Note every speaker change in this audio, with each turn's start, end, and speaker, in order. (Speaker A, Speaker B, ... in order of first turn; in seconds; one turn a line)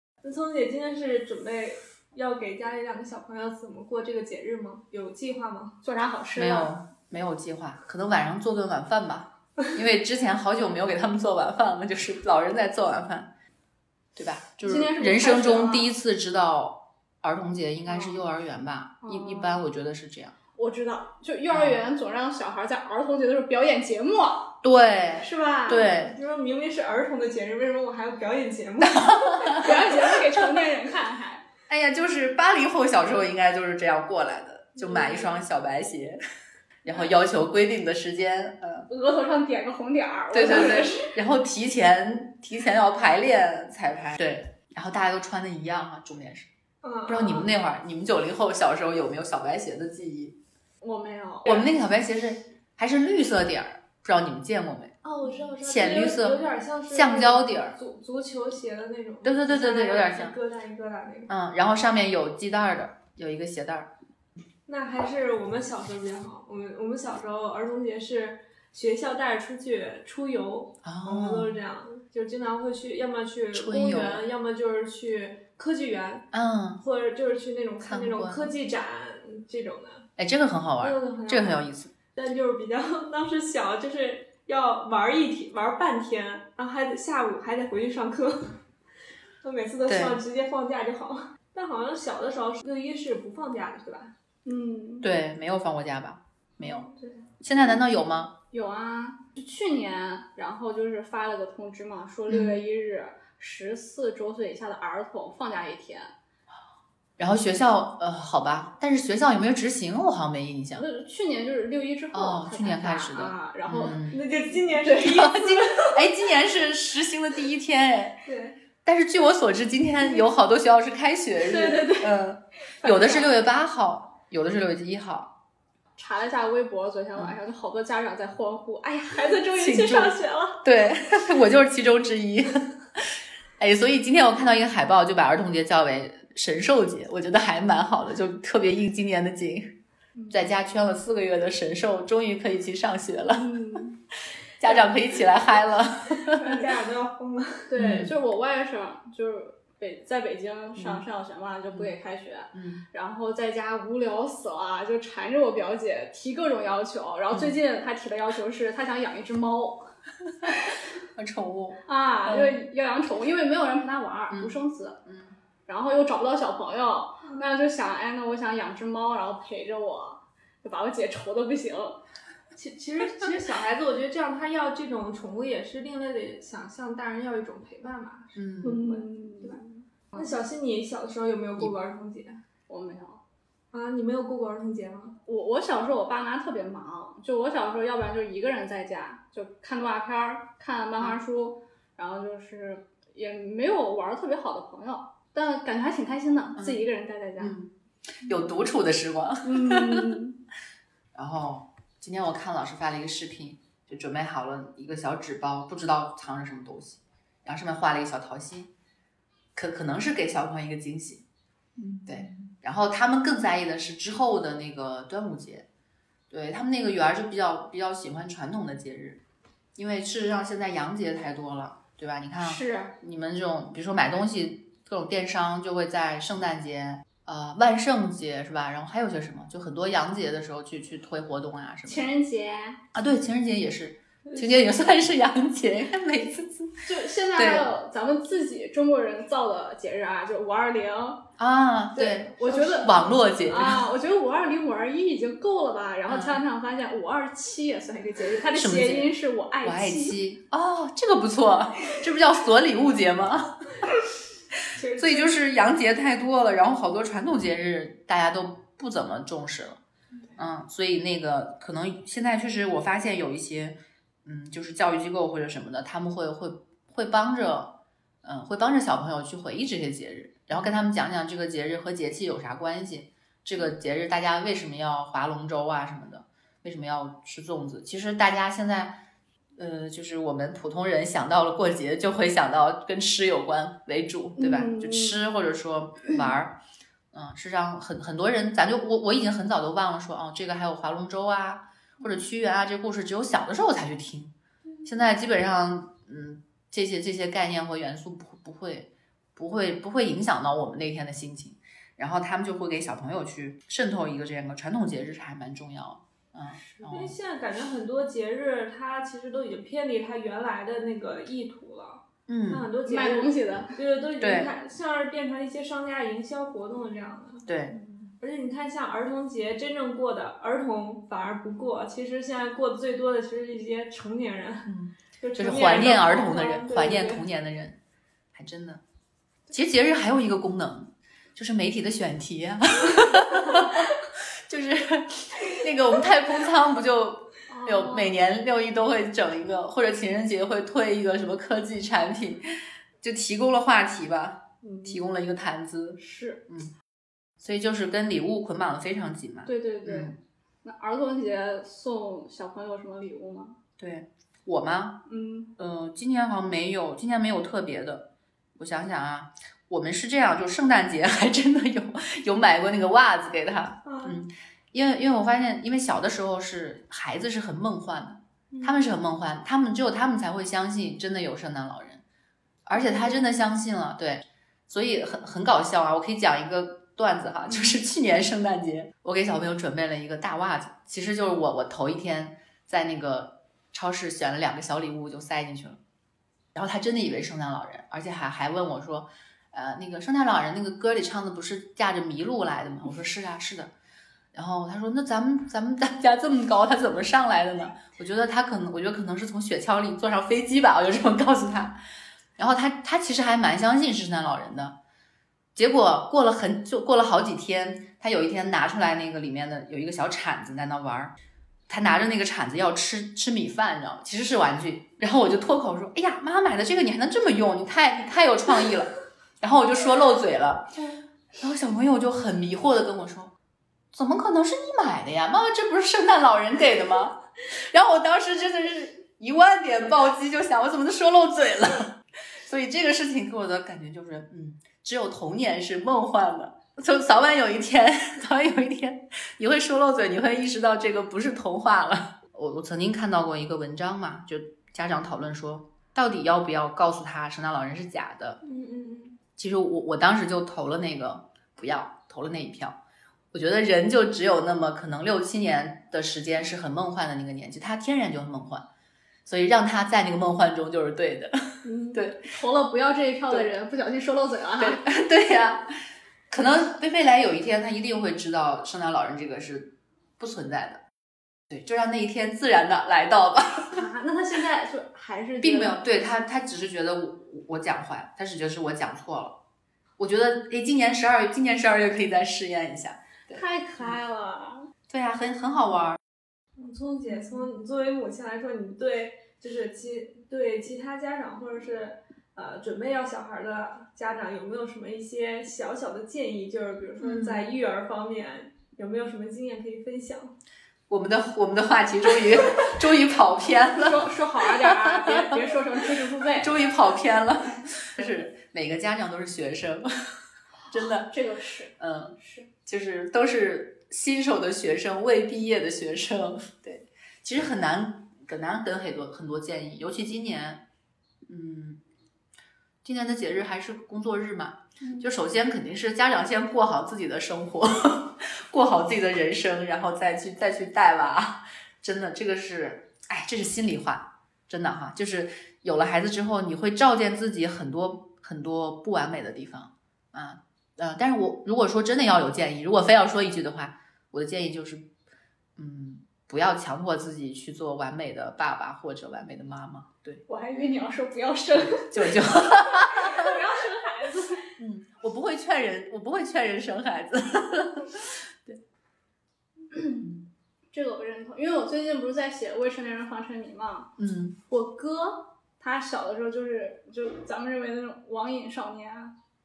Speaker A: 0.2-5.8
Speaker B: 5.8-6.7
Speaker C: 6.3-13.3
Speaker C: 14.1-20.3
Speaker B: 14.6-15.9
Speaker B: 17.9-18.1
Speaker B: 19.0-19.5
Speaker B: 20.6-24.6
Speaker C: 21.5-21.8
Speaker C: 24.6-26.1
Speaker B: 25.2-25.8
Speaker A: 25.4-29.8
Speaker C: 28.8-29.8
Speaker B: 29.3-31.4
Speaker C: 31.7-36.2
Speaker A: 34.8-35.4
Speaker C: 36.8-38.9
Speaker B: 38.9-41.1
Speaker C: 40.3-46.5
Speaker A: 46.8-47.5
Speaker C: 47.1-50.4
Speaker B: 50.8-51.7
Speaker C: 51.5-54.9
Speaker A: 55.0-61.3
Speaker C: 55.6-57.8
Speaker C: 59.2-60.3
Speaker C: 61.3-63.9
Speaker A: 64.7-80.1
Speaker C: 70.8-71.6
Speaker C: 73.5-74.2
Speaker C: 76.3-76.8
Speaker C: 77.8-78.5
Speaker C: 80.2-81.9
Speaker A: 80.8-81.6
Speaker A: 82.1-88.6
Speaker A: 89.4-94.1
Speaker C: 89.9-90.2
Speaker B: 94.5-95.1
Speaker C: 95.0-96.8
Speaker A: 96.6-97.2
Speaker C: 97.4-98.3
Speaker B: 98.5-106.1
Speaker C: 102.3-102.6
Speaker C: 107.2-110.8
Speaker B: 110.7-114.1
Speaker C: 112.1-114.2
Speaker A: 114.1-116.1
Speaker C: 114.9-118.2
Speaker A: 118.2-118.5
Speaker C: 118.8-125.3
Speaker B: 121.4-122.2
Speaker B: 122.8-123.3
Speaker B: 126.0-130.6
Speaker C: 129.5-139.8
Speaker C: 140.3-143.8
Speaker B: 143.3-144.0
Speaker C: 144.6-146.6
Speaker A: 146.2-147.7
Speaker B: 147.7-159.9
Speaker C: 147.8-148.1
Speaker C: 150.8-151.0
Speaker C: 152.5-152.8
Speaker C: 157.3-157.6
Speaker B: 160.5-160.8
Speaker C: 161.1-162.6
Speaker B: 161.8-165.0
Speaker C: 164.3-165.3
Speaker B: 165.7-172.0
Speaker A: 172.5-179.6
Speaker C: 178.3-178.8
Speaker B: 178.6-180.2
Speaker A: 180.1-182.4
Speaker B: 182.7-183.2
Speaker A: 183.7-185.2
Speaker B: 185.2-197.6
Speaker C: 196.6-196.8
Speaker C: 197.4-197.7
Speaker C: 198.2-200.2
Speaker B: 199.4-200.4
Speaker C: 201.1-208.7
Speaker C: 209.5-211.2
Speaker C: 212.0-215.7
Speaker C: 216.3-219.2
Speaker C: 219.8-232.1
Speaker B: 222.4-222.9
Speaker B: 231.9-232.8
Speaker C: 232.9-237.7
Speaker B: 236.8-241.2
Speaker C: 241.4-243.8
Speaker B: 241.9-250.2
Speaker A: 242.4-243.1
Speaker C: 246.1-246.4
Speaker C: 248.5-253.7
Speaker A: 254.7-255.3
Speaker C: 255.0-259.8
Speaker C: 260.4-279.0
Speaker C: 279.6-286.6
Speaker B: 284.4-285.2
Speaker C: 287.1-294.3
Speaker C: 294.8-307.1
Speaker A: 306.9-317.5
Speaker C: 312.3-312.7
Speaker B: 312.8-313.8
Speaker C: 314.2-314.5
Speaker C: 317.4-317.8
Speaker A: 318.2-327.2
Speaker C: 324.6-327.8
Speaker C: 328.3-328.8
Speaker C: 329.5-342.4
Speaker B: 337.5-338.1
Speaker C: 343.0-346.7
Speaker B: 344.6-345.0
Speaker B: 346.0-346.4
Speaker C: 347.4-350.1
Speaker B: 349.4-353.6
Speaker C: 353.8-355.0
Speaker B: 355.1-355.5
Speaker C: 355.6-372.0
Speaker A: 363.8-364.2
Speaker A: 368.5-368.8
Speaker C: 372.6-385.8
Speaker C: 386.5-393.7
Speaker C: 394.3-401.8
Speaker C: 402.4-404.8
Speaker C: 405.5-411.1
Speaker C: 411.7-420.7
Speaker C: 421.4-423.3
Speaker C: 423.9-448.4
Speaker A: 448.4-449.2
Speaker C: 449.4-452.8
Speaker C: 453.3-458.7
Speaker C: 459.2-462.3
Speaker B: 461.6-464.8
Speaker C: 464.6-465.7
Speaker C: 466.3-470.8
Speaker C: 471.5-473.8
Speaker B: 473.7-475.8
Speaker C: 475.4-479.4
Speaker C: 480.0-483.9
Speaker B: 483.3-484.6
Speaker C: 484.9-486.0
Speaker A: 486.6-500.3
Speaker C: 497.0-497.5
Speaker C: 500.9-505.4
Speaker B: 503.7-506.5
Speaker C: 506.4-509.9
Speaker C: 510.7-511.1
Speaker B: 510.8-512.5
Speaker C: 511.8-520.6
Speaker C: 521.3-521.8
Speaker C: 522.8-544.9
Speaker C: 545.6-550.2
Speaker B: 550.3-554.5
Speaker C: 551.5-553.4
Speaker C: 554.6-558.6
Speaker B: 559.7-560.1
Speaker B: 560.7-563.9
Speaker C: 564.0-564.4
Speaker B: 564.5-569.1